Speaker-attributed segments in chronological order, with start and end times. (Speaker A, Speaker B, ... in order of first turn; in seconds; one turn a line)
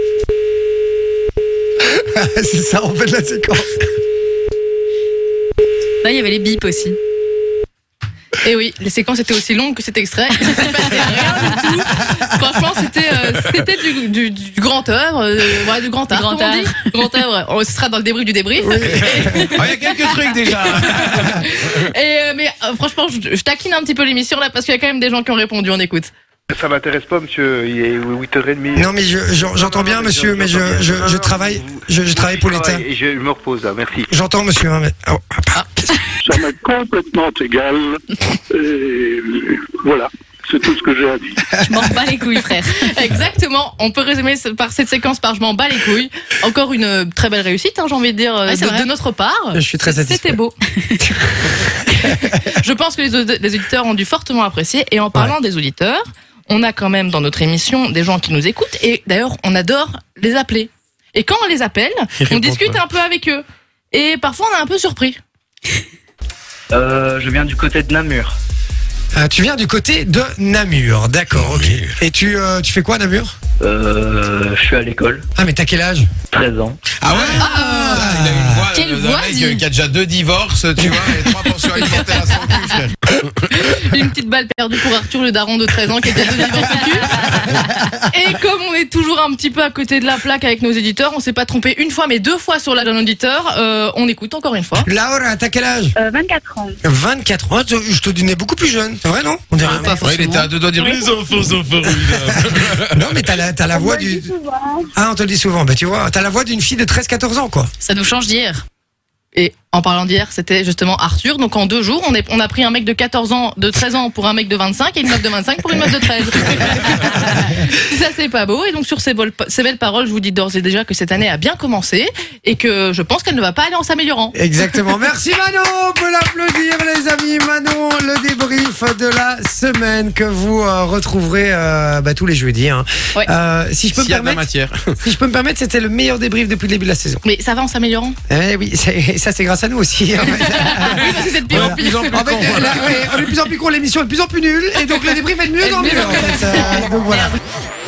Speaker A: 1.8-3.8
Speaker B: 6.0-7.0
Speaker C: 8.4-26.1
Speaker B: 16.1-16.7
Speaker A: 18.6-19.6
Speaker D: 18.9-21.8
Speaker E: 26.5-34.1
Speaker A: 28.7-32.8
Speaker A: 34.1-36.0
Speaker F: 36.2-41.5
Speaker B: 41.6-42.9
Speaker C: 42.8-50.5
Speaker B: 48.5-48.9
Speaker A: 49.5-50.4
Speaker A: 51.0-51.6
Speaker C: 51.9-65.2
Speaker D: 62.2-62.8
Speaker G: 66.7-68.4
Speaker A: 69.1-73.3
Speaker G: 73.6-75.3
Speaker A: 75.3-76.1
Speaker G: 76.3-76.8
Speaker D: 77.0-83.3
Speaker A: 77.1-78.7
Speaker B: 77.3-77.7
Speaker B: 78.8-79.6
Speaker A: 80.8-81.3
Speaker C: 83.5-87.4
Speaker C: 88.0-94.9
Speaker A: 94.8-95.9
Speaker H: 96.0-96.8
Speaker A: 96.8-100.1
Speaker B: 99.7-100.5
Speaker D: 99.8-103.2
Speaker H: 100.8-101.2
Speaker A: 102.9-104.3
Speaker H: 103.7-104.9
Speaker A: 105.0-107.7
Speaker B: 107.8-108.6
Speaker C: 109.3-124.4
Speaker A: 124.3-134.5
Speaker D: 133.9-135.0
Speaker A: 135.0-137.2
Speaker C: 137.2-138.2
Speaker A: 138.3-147.3
Speaker C: 140.4-142.6
Speaker D: 141.0-143.3